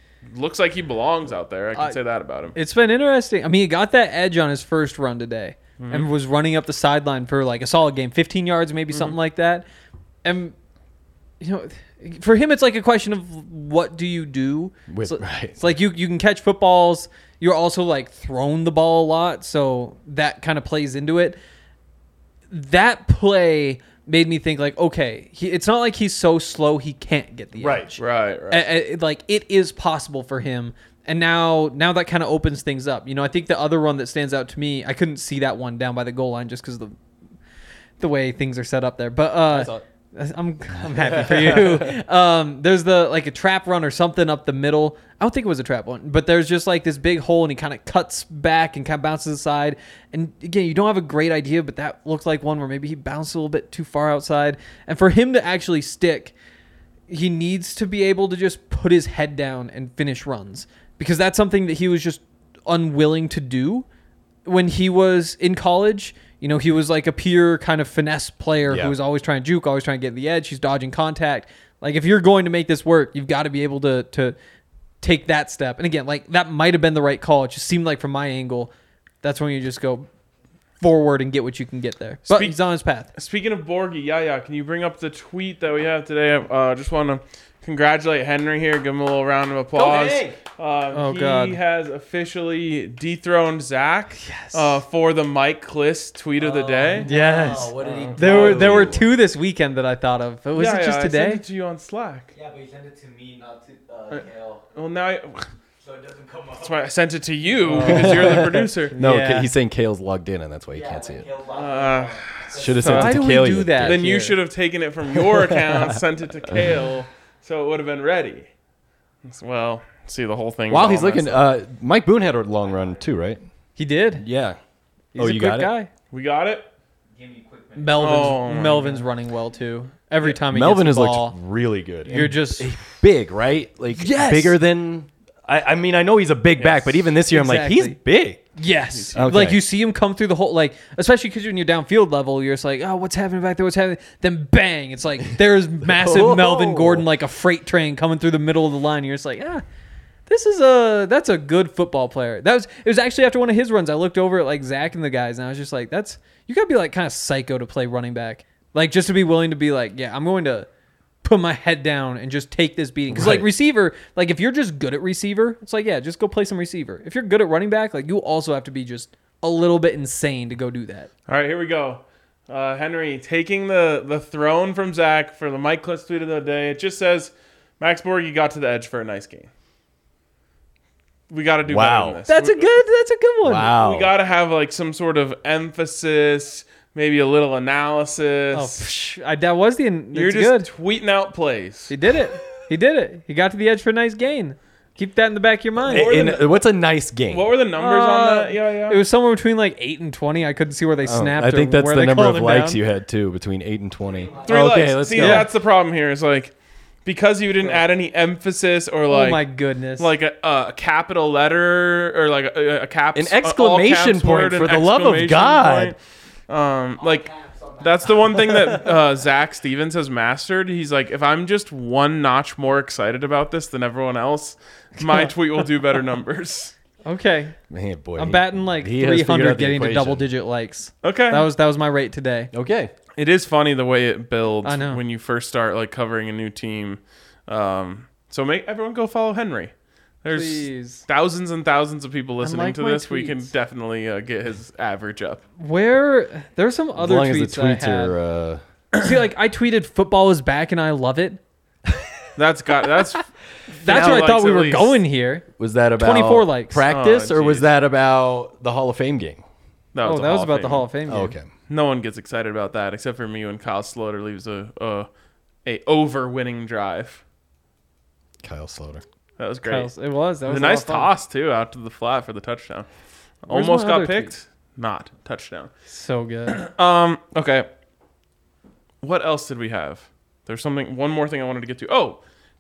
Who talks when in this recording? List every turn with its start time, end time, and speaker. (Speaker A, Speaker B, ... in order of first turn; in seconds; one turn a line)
Speaker A: 0.3-2.6
Speaker B: 2.5-9.7
Speaker A: 5.8-6.1
Speaker B: 10.2-10.6
Speaker B: 11.4-21.4
Speaker C: 14.9-15.6
Speaker B: 22.5-37.0
Speaker C: 27.6-27.9
Speaker A: 28.0-28.7
Speaker B: 38.0-56.4
Speaker C: 39.5-39.8
Speaker C: 40.8-42.0
Speaker B: 57.1-63.9
Speaker B: 64.5-74.4
Speaker C: 68.7-69.0
Speaker B: 75.0-80.1
Speaker B: 80.8-83.1
Speaker A: 82.3-82.6
Speaker A: 83.1-97.1
Speaker C: 89.8-90.2
Speaker B: 90.9-91.6
Speaker B: 94.2-94.8
Speaker D: 96.4-98.9
Speaker B: 97.0-101.4
Speaker A: 97.9-99.0
Speaker C: 98.1-99.0
Speaker A: 100.5-102.3
Speaker D: 102.3-104.6
Speaker A: 104.1-105.5
Speaker D: 105.8-106.7
Speaker A: 106.6-109.0
Speaker B: 107.6-109.5
Speaker C: 107.8-111.3
Speaker D: 110.7-112.8
Speaker A: 111.5-113.2
Speaker C: 112.5-114.0
Speaker B: 112.8-114.4
Speaker A: 113.8-118.5
Speaker C: 115.2-116.8
Speaker A: 119.2-121.5
Speaker C: 120.7-123.4
Speaker B: 123.8-124.2
Speaker C: 124.2-124.6
Speaker C: 125.2-125.7
Speaker B: 125.2-125.9
Speaker A: 126.1-126.7
Speaker D: 127.2-128.3
Speaker B: 127.7-131.4
Speaker A: 128.0-129.0
Speaker C: 130.2-138.4
Speaker B: 132.1-132.7
Speaker B: 133.9-134.6
Speaker A: 136.6-137.0
Speaker B: 137.3-138.0
Speaker B: 138.6-149.6
Speaker A: 138.9-139.5
Speaker C: 139.2-139.6
Speaker C: 145.8-147.1
Speaker B: 150.3-160.7
Speaker B: 161.2-171.1
Speaker C: 163.1-163.5
Speaker A: 171.3-179.5
Speaker A: 181.3-182.8
Speaker C: 181.7-182.2
Speaker B: 182.3-183.7
Speaker C: 183.4-184.1
Speaker A: 183.7-188.8
Speaker B: 188.5-190.7
Speaker A: 190.1-191.9
Speaker B: 191.9-196.4
Speaker A: 195.9-196.5
Speaker C: 195.9-197.5
Speaker A: 197.3-199.0
Speaker B: 197.8-202.8
Speaker C: 201.1-205.5
Speaker D: 204.2-204.5
Speaker A: 204.4-206.5
Speaker B: 205.2-205.5
Speaker A: 207.1-209.4
Speaker B: 209.1-210.1
Speaker A: 210.0-216.0
Speaker C: 213.2-215.9
Speaker A: 216.5-226.8
Speaker D: 217.2-217.9
Speaker B: 225.0-225.3
Speaker B: 227.1-227.6
Speaker C: 227.7-230.3
Speaker B: 228.2-232.5
Speaker A: 231.0-231.5
Speaker C: 232.5-232.9
Speaker A: 233.2-245.4
Speaker B: 234.6-235.0
Speaker B: 240.3-241.1
Speaker B: 242.4-243.5
Speaker B: 245.6-248.2
Speaker C: 247.0-248.6
Speaker B: 249.0-251.4
Speaker A: 252.4-255.0
Speaker B: 253.8-255.4
Speaker C: 255.6-259.4
Speaker B: 256.0-256.9
Speaker A: 256.9-257.7
Speaker A: 259.9-260.9
Speaker B: 260.0-261.4
Speaker C: 261.1-261.5
Speaker A: 261.7-265.1
Speaker A: 265.6-267.2
Speaker C: 268.4-269.0
Speaker A: 269.4-269.9
Speaker B: 269.6-271.1
Speaker A: 270.4-272.9
Speaker A: 273.4-275.7
Speaker B: 273.5-274.3
Speaker B: 275.9-276.6
Speaker A: 276.5-277.7
Speaker A: 279.0-282.2